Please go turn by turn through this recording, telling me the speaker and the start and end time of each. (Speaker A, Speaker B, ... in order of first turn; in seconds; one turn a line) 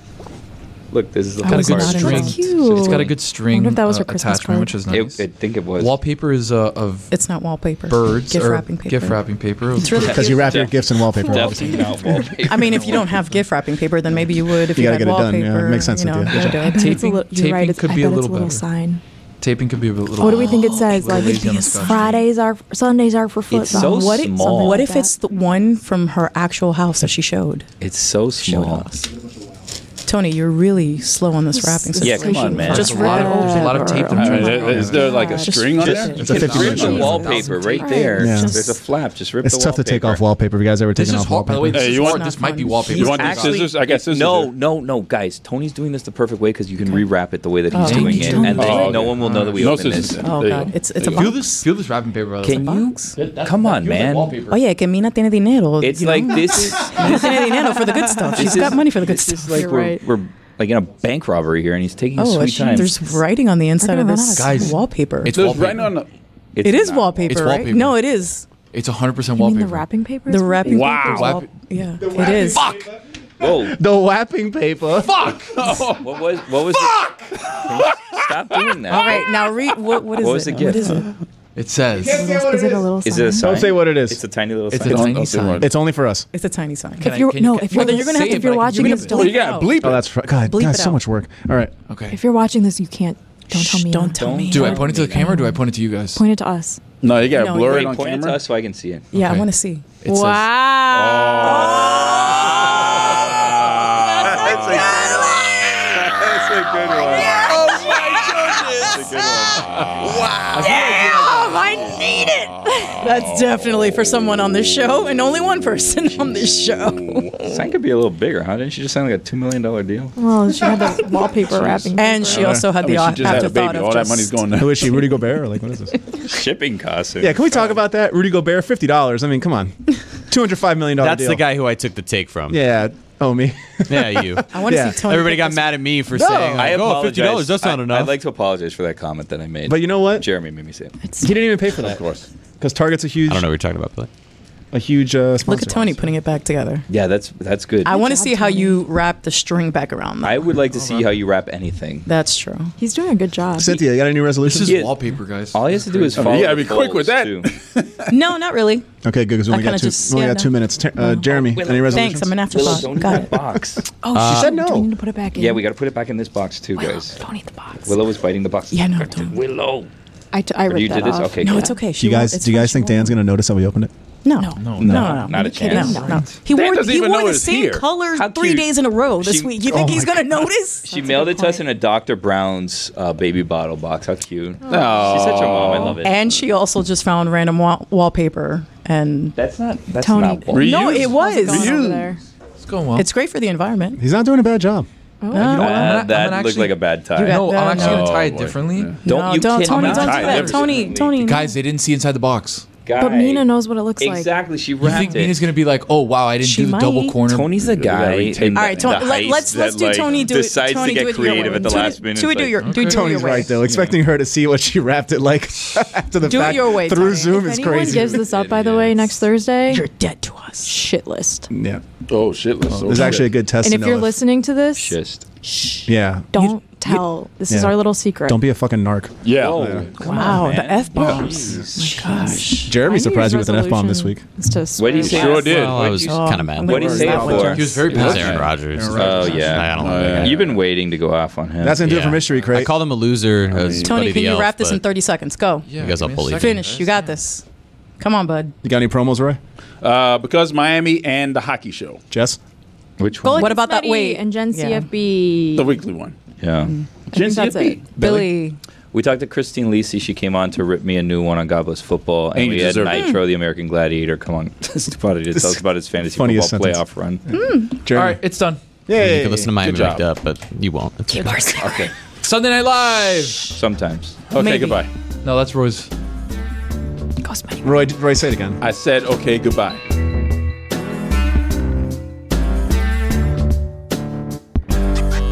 Speaker A: 0.9-3.1
Speaker B: 1.4-2.5
Speaker C: 1.5-5.2
Speaker D: 1.7-4.8
Speaker A: 4.9-6.0
Speaker C: 5.8-7.1
Speaker B: 7.1-9.2
Speaker C: 7.9-10.2
Speaker B: 9.7-10.6
Speaker A: 9.9-13.2
Speaker E: 9.9-11.9
Speaker B: 11.4-17.1
Speaker C: 12.7-13.3
Speaker E: 14.7-16.6
Speaker C: 16.3-18.6
Speaker D: 16.6-19.0
Speaker C: 19.4-22.2
Speaker D: 20.2-25.1
Speaker B: 20.4-22.1
Speaker A: 23.5-24.9
Speaker B: 23.7-27.7
Speaker A: 27.8-28.9
Speaker B: 28.4-29.1
Speaker B: 30.1-37.3
Speaker D: 31.5-35.5
Speaker A: 32.0-33.3
Speaker C: 32.7-35.1
Speaker F: 34.1-37.2
Speaker A: 35.8-40.2
Speaker C: 36.0-38.0
Speaker E: 36.2-36.8
Speaker D: 36.9-37.3
Speaker D: 37.8-38.4
Speaker E: 38.2-38.5
Speaker B: 38.2-38.8
Speaker E: 39.4-42.0
Speaker C: 41.0-43.7
Speaker F: 41.7-42.3
Speaker B: 41.9-43.2
Speaker F: 42.9-44.5
Speaker A: 42.9-50.2
Speaker B: 47.7-49.1
Speaker C: 47.8-49.9
Speaker F: 48.5-50.8
Speaker B: 50.2-51.7
Speaker C: 51.0-54.6
Speaker A: 52.4-54.4
Speaker B: 52.5-53.1
Speaker B: 54.5-59.7
Speaker A: 55.8-57.4
Speaker D: 57.0-58.6
Speaker A: 58.3-63.0
Speaker D: 59.4-60.0
Speaker B: 62.2-65.5
Speaker D: 62.7-63.2
Speaker D: 63.8-64.8
Speaker C: 64.3-66.0
Speaker F: 65.3-66.1
Speaker A: 66.5-67.6
Speaker B: 66.6-68.5
Speaker C: 67.3-68.0
Speaker C: 68.7-69.8
Speaker D: 69.4-71.4
Speaker B: 70.3-72.7
Speaker F: 70.7-71.3
Speaker C: 71.1-71.5
Speaker E: 72.0-75.2
Speaker C: 72.3-72.9
Speaker A: 73.4-73.8
Speaker C: 75.0-75.8
Speaker F: 75.4-76.0
Speaker A: 76.0-79.3
Speaker C: 77.0-77.6
Speaker F: 77.9-78.2
Speaker B: 78.9-81.1
Speaker A: 80.1-81.0
Speaker C: 81.5-82.3
Speaker E: 81.9-84.2
Speaker D: 82.0-83.6
Speaker A: 83.0-85.1
Speaker C: 84.7-85.7
Speaker F: 84.7-85.7
Speaker E: 85.6-86.2
Speaker B: 86.3-89.9
Speaker D: 87.0-89.6
Speaker C: 87.0-89.3
Speaker F: 89.2-90.0
Speaker E: 89.8-91.7
Speaker B: 90.5-91.0
Speaker C: 91.9-92.2
Speaker D: 92.1-95.6
Speaker B: 93.5-95.2
Speaker A: 94.2-95.3
Speaker C: 94.5-96.2
Speaker D: 96.1-96.8
Speaker F: 97.0-98.4
Speaker B: 97.3-97.9
Speaker A: 97.6-99.1
Speaker C: 99.1-99.5
Speaker B: 99.1-99.8
Speaker C: 100.0-100.5
Speaker D: 100.0-103.1
Speaker F: 101.0-102.0
Speaker A: 101.4-102.9
Speaker C: 103.0-103.8
Speaker A: 103.4-109.7
Speaker D: 104.2-105.2
Speaker B: 104.2-106.2
Speaker B: 106.9-108.9
Speaker F: 107.8-108.5
Speaker C: 110.5-111.1
Speaker B: 110.5-117.6
Speaker F: 111.0-111.3
Speaker D: 111.2-111.7
Speaker A: 117.5-120.1
Speaker D: 120.2-122.5
Speaker F: 121.5-125.1
Speaker B: 122.0-124.5
Speaker E: 122.3-122.7
Speaker E: 124.5-125.9
Speaker A: 126.1-127.6
Speaker E: 127.2-129.8
Speaker E: 130.3-131.4
Speaker G: 130.9-132.6
Speaker E: 132.5-135.1
Speaker G: 133.9-134.5
Speaker B: 134.5-135.8
Speaker G: 135.0-138.1
Speaker E: 136.1-136.8
Speaker A: 136.5-140.9
Speaker E: 139.7-140.3
Speaker D: 141.0-141.3
Speaker E: 141.2-142.0
Speaker F: 141.8-142.3
Speaker E: 142.6-143.5
Speaker G: 143.2-144.1
Speaker E: 144.7-146.0
Speaker B: 145.4-146.8
Speaker A: 146.9-147.9
Speaker B: 147.8-150.5
Speaker D: 147.8-148.8
Speaker A: 150.2-152.1
Speaker B: 152.1-152.7
Speaker D: 152.8-153.8
Speaker E: 153.6-154.9
Speaker C: 154.4-156.6
Speaker A: 154.6-154.9
Speaker A: 155.5-157.5
Speaker F: 156.1-158.1
Speaker B: 158.1-158.8
Speaker E: 159.0-162.5
Speaker B: 159.5-160.5
Speaker A: 161.5-163.8
Speaker B: 161.9-163.4
Speaker D: 164.0-165.6
Speaker G: 164.2-164.4
Speaker E: 164.2-164.9
Speaker A: 165.3-167.2
Speaker D: 166.8-167.9
Speaker A: 167.8-169.9
Speaker B: 168.7-169.3
Speaker D: 170.3-173.1
Speaker A: 170.7-171.8
Speaker B: 171.4-172.9
Speaker E: 171.9-173.9
Speaker B: 174.2-180.9
Speaker D: 174.4-174.6
Speaker C: 174.6-175.2
Speaker A: 174.8-176.4
Speaker D: 175.3-176.2
Speaker F: 176.4-177.8
Speaker A: 178.1-179.9
Speaker E: 179.7-180.4
Speaker D: 180.9-181.6
Speaker A: 180.9-186.3
Speaker D: 184.6-185.4
Speaker F: 184.7-186.0
Speaker B: 186.0-189.3
Speaker A: 189.4-190.9
Speaker D: 190.0-192.2
Speaker F: 190.5-192.1
Speaker B: 190.6-191.9
Speaker C: 192.6-193.1
Speaker B: 192.9-194.0
Speaker E: 194.0-194.8
Speaker D: 195.2-195.8
Speaker B: 195.3-196.1
Speaker C: 195.4-199.0
Speaker A: 195.6-197.4
Speaker B: 197.2-198.3
Speaker F: 197.7-199.0
Speaker B: 199.0-201.6
Speaker A: 199.0-201.2
Speaker F: 199.6-200.8
Speaker C: 199.7-202.7
Speaker A: 202.8-203.5
Speaker D: 203.0-204.3
Speaker A: 204.0-205.4
Speaker C: 204.8-207.6
Speaker B: 206.4-207.2
Speaker A: 207.2-212.7
Speaker F: 207.6-209.1
Speaker B: 208.5-213.7
Speaker C: 212.6-213.0
Speaker E: 212.7-218.2
Speaker B: 216.2-218.1
Speaker D: 217.3-219.9
Speaker B: 219.7-220.8
Speaker D: 220.6-221.5
Speaker E: 221.5-221.8
Speaker F: 222.1-223.3
Speaker E: 222.7-224.2
Speaker D: 223.6-224.9
Speaker A: 224.8-225.2
Speaker E: 225.8-229.8
Speaker D: 226.3-228.4
Speaker F: 229.2-229.9
Speaker A: 229.3-232.3
Speaker B: 230.0-232.8
Speaker D: 231.8-235.6
Speaker E: 232.6-234.2
Speaker A: 234.8-237.9
Speaker F: 235.0-235.9
Speaker G: 235.4-240.4
Speaker B: 235.8-237.9
Speaker E: 236.7-240.1
Speaker C: 237.5-238.5
Speaker F: 237.8-240.6
Speaker A: 238.9-242.0
Speaker E: 241.6-242.7
Speaker G: 241.8-244.8
Speaker F: 243.5-244.0
Speaker B: 243.8-245.7
Speaker C: 245.7-247.1
Speaker G: 245.7-246.6
Speaker B: 246.3-247.4
Speaker B: 248.0-248.5
Speaker E: 248.6-249.4
Speaker F: 249.8-252.0
Speaker E: 252.1-252.4
Speaker A: 253.0-253.5
Speaker B: 253.2-254.9
Speaker D: 253.2-255.7
Speaker F: 255.6-256.1
Speaker A: 256.4-256.7
Speaker F: 257.1-258.0
Speaker D: 257.1-257.8
Speaker B: 257.9-258.6
Speaker E: 258.0-258.3
Speaker A: 258.9-267.2
Speaker F: 262.3-263.1
Speaker B: 262.9-263.2
Speaker E: 265.3-265.6
Speaker E: 266.1-268.2
Speaker B: 267.3-267.8
Speaker C: 267.9-268.6
Speaker E: 268.9-269.5
Speaker G: 268.9-271.5
Speaker A: 269.6-270.0
Speaker B: 271.1-271.7
Speaker A: 271.6-271.9
Speaker F: 271.6-271.9
Speaker C: 272.2-273.5
Speaker A: 273.5-274.2
Speaker F: 274.3-274.9
Speaker B: 274.4-274.9
Speaker C: 275.2-275.9
Speaker D: 277.3-277.6
Speaker E: 277.6-278.6
Speaker F: 278.6-279.8